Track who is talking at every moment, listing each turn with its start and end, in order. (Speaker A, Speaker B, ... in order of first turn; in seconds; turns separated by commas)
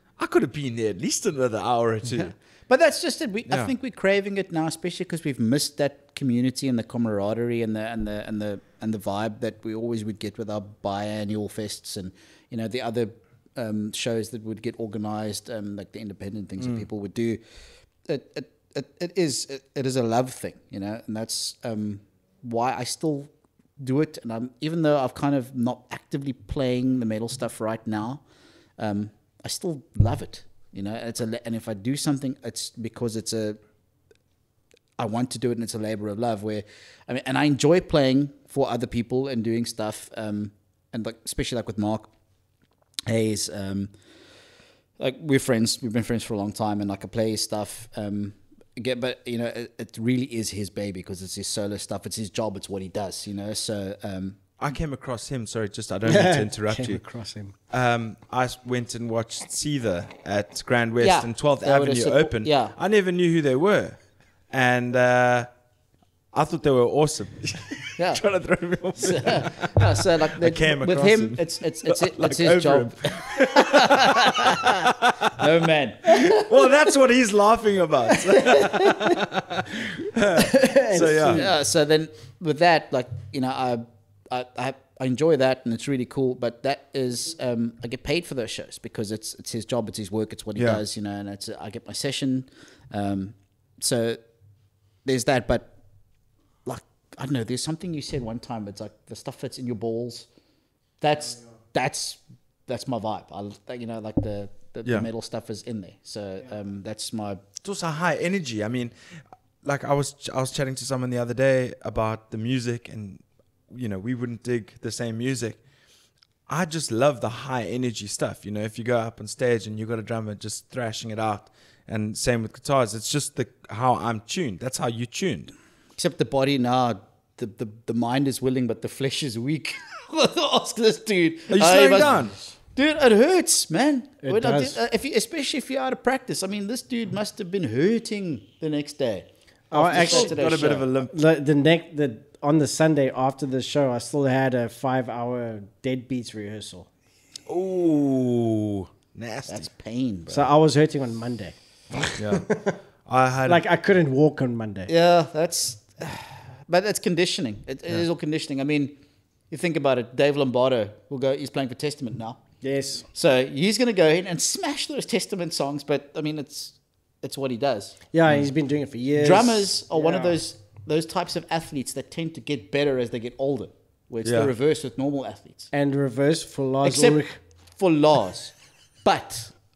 Speaker A: 0.2-2.3, Speaker B: 2.0-17.4, Speaker A: 3.5-3.7, Speaker B: 18.1-28.2, Speaker B: 28.8-33.6, Speaker B: 35.0-42.1, Speaker B: 43.1-43.9, Speaker B: 45.0-54.4, Speaker A: 54.6-57.0, Speaker C: 56.1-57.5, Speaker A: 57.7-64.0, Speaker B: 61.0-62.7, Speaker A: 64.5-65.5, Speaker A: 66.3-75.4, Speaker B: 68.0-68.2, Speaker B: 69.0-76.6, Speaker A: 76.1-81.4, Speaker C: 78.3-79.2, Speaker C: 80.3-81.5, Speaker B: 81.3-94.2, Speaker B: 95.0-95.7, Speaker B: 96.7-100.3, Speaker B: 101.0-107.4, Speaker A: 107.6-108.9, Speaker A: 109.6-115.6, Speaker A: 116.5-125.5, Speaker B: 126.0-140.9, Speaker A: 131.5-132.3, Speaker C: 134.2-134.8, Speaker C: 139.7-140.4, Speaker A: 139.7-141.1, Speaker C: 141.1-146.9, Speaker A: 147.5-149.7, Speaker B: 149.5-150.5, Speaker C: 150.3-152.8, Speaker A: 152.2-152.5, Speaker A: 153.1-153.6, Speaker C: 153.5-154.9, Speaker B: 154.9-158.9, Speaker B: 159.5-162.4, Speaker C: 162.6-163.1, Speaker B: 163.1-168.0, Speaker C: 168.1-170.4, Speaker B: 169.2-175.7, Speaker A: 174.2-174.5, Speaker C: 175.7-177.4, Speaker B: 176.8-177.2, Speaker B: 177.8-178.5, Speaker B: 179.0-179.5